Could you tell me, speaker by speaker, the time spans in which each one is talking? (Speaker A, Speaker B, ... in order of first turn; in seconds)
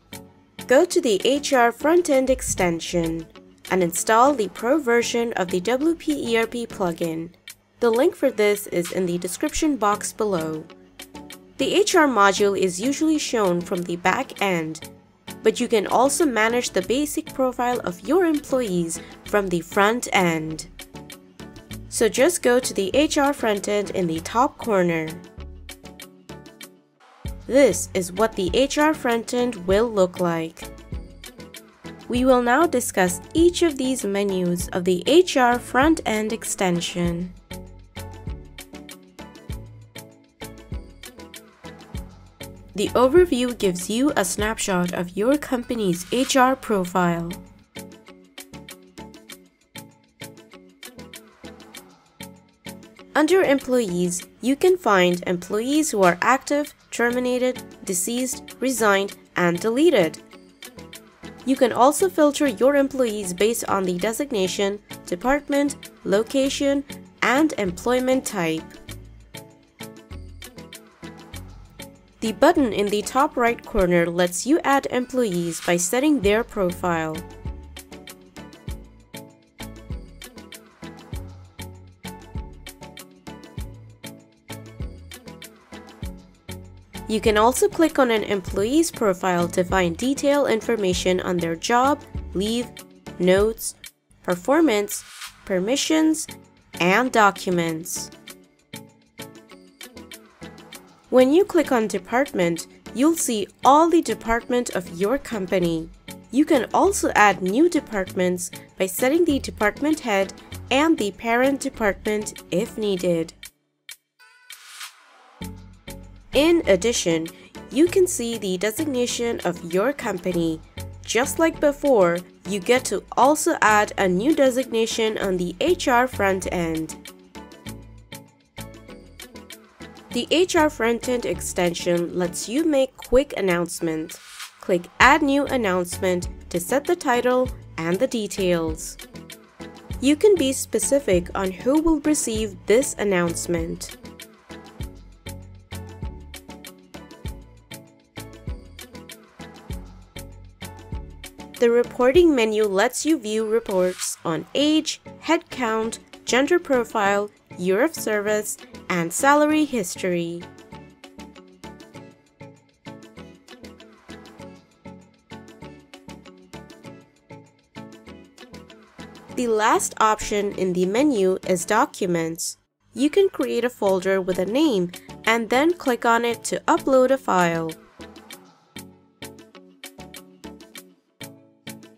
Speaker A: 0.7-10.7, 11.6-14.8, 15.4-20.7, 21.9-25.2, 27.5-30.7, 32.1-37.4, 42.8-47.4, 53.1-60.2, 61.5-68.7, 72.2-77.3, 87.1-96.3, 96.8-98.1, 101.1-113.4, 116.3-127.0, 130.1-139.0, 140.0-143.9, 151.6-160.5, 169.3-177.8